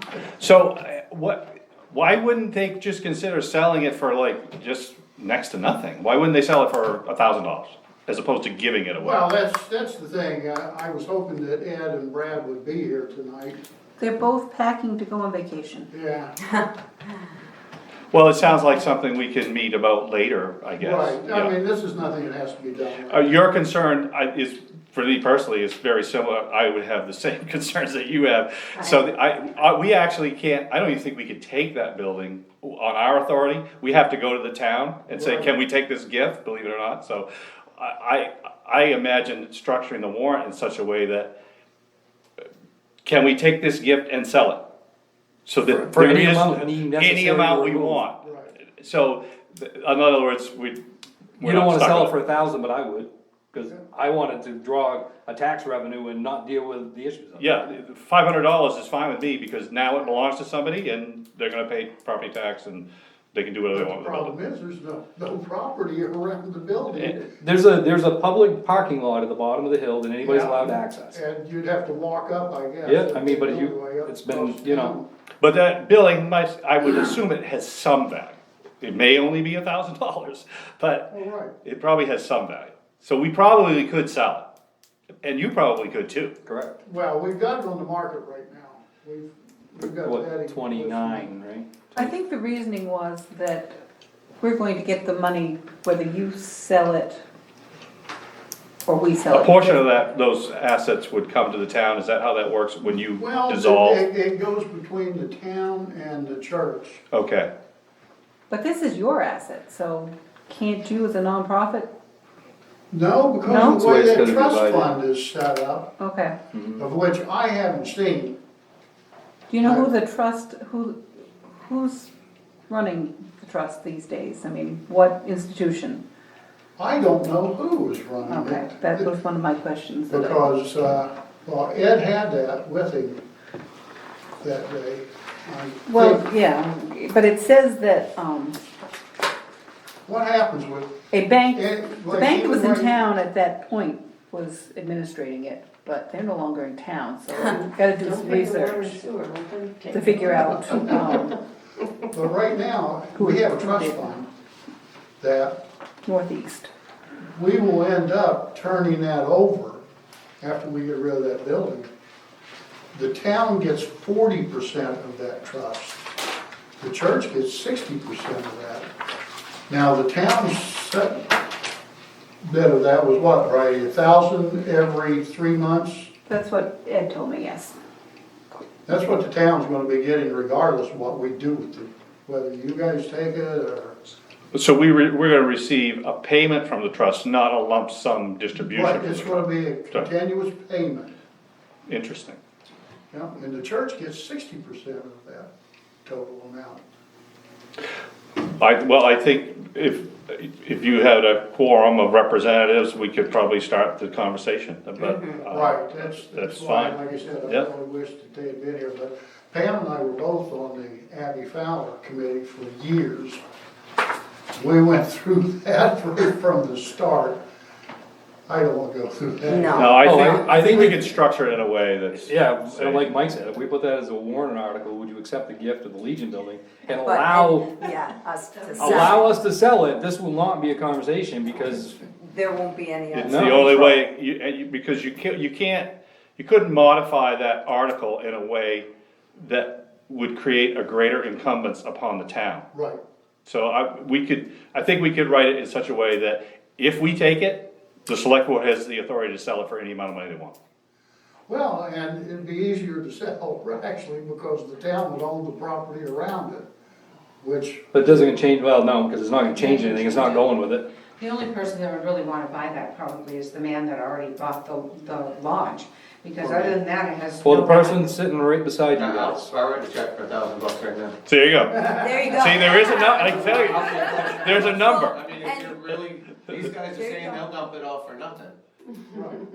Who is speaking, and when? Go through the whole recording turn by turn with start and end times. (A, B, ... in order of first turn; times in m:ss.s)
0:00.4-0:09.2 A
0:08.9-0:13.6 B
0:14.0-0:15.9 C
0:15.9-0:16.3 B
0:18.1-0:21.5 A
0:20.8-0:23.3 B
0:23.1-0:41.3 A
0:35.1-0:35.5 B
0:43.0-0:44.6 A
0:45.4-0:50.8 A
0:45.9-0:48.0 D
0:48.2-0:48.5 B
0:51.4-0:52.1 A
0:51.4-0:57.5 D
0:57.4-1:04.3 A
1:03.7-1:07.2 B
1:07.0-1:11.2 D
1:10.2-1:15.1 B
1:12.8-1:15.0 D
1:15.4-1:21.1 A
1:21.1-1:21.5 B
1:21.6-1:24.4 A
1:25.2-1:26.3 A
1:26.4-1:26.7 D
1:26.8-1:31.3 B
1:29.8-1:32.1 D
1:32.0-1:33.7 C
1:34.4-1:37.2 C
1:38.8-1:40.0 C
1:39.3-1:44.0 A
1:43.1-1:47.0 B
1:47.1-1:47.5 A
1:48.5-1:51.9 C
1:52.9-1:55.9 B
1:53.4-1:54.9 D
1:53.5-1:53.9 C
1:56.0-1:56.3 C
1:56.5-1:56.9 D
1:56.8-1:58.4 B
1:59.5-2:01.0 C
1:59.6-1:59.9 B
2:01.6-2:02.1 C
2:02.7-2:06.0 C
2:06.8-2:09.1 B
2:08.3-2:10.5 C
2:10.1-2:13.2 B
2:14.4-2:16.2 B
2:15.9-2:18.6 C
2:20.0-2:21.0 B
2:21.1-2:29.0 C
2:21.5-2:22.9 B
2:27.3-2:30.1 E
2:29.9-2:31.4 C
2:30.6-2:31.0 B
2:32.1-2:34.3 B
2:33.2-2:34.1 C
2:35.2-2:35.6 B
2:36.0-2:36.7 C
2:37.3-2:39.8 B
2:40.4-2:41.9 B
2:42.9-2:46.0 B
2:46.8-2:48.9 B
2:49.7-2:51.3 B
2:52.4-2:56.1 B
2:56.3-2:57.7 C
2:58.8-3:04.0 B
3:04.5-3:10.1 A
3:08.6-3:11.1 B
3:11.9-3:12.4 A
3:13.1-3:15.5 B
3:16.0-3:16.8 B
3:18.6-3:27.7 A
3:25.4-3:33.4 B
3:34.5-3:37.4 B
3:38.5-3:41.1 B
3:39.5-3:40.0 E
3:39.8-3:43.1 A
3:40.0-3:41.0 D
3:42.2-3:47.7 D
3:46.9-3:49.2 E
3:48.8-3:52.0 D
3:52.2-3:53.9 E
3:53.1-4:02.6 A
3:53.2-3:53.9 D
4:02.7-4:03.0 B
4:03.4-4:10.5 A
4:11.5-4:16.7 B
4:17.4-4:17.9 B
4:17.9-4:20.8 D
4:19.5-4:20.5 F
4:21.2-4:28.1 F
4:27.4-4:29.5 D
4:28.9-4:31.2 G
4:31.2-4:33.8 A
4:31.8-4:35.8 E
4:33.3-4:38.6 G
4:34.4-4:35.2 A
4:36.8-4:37.5 E
4:39.1-4:39.4 B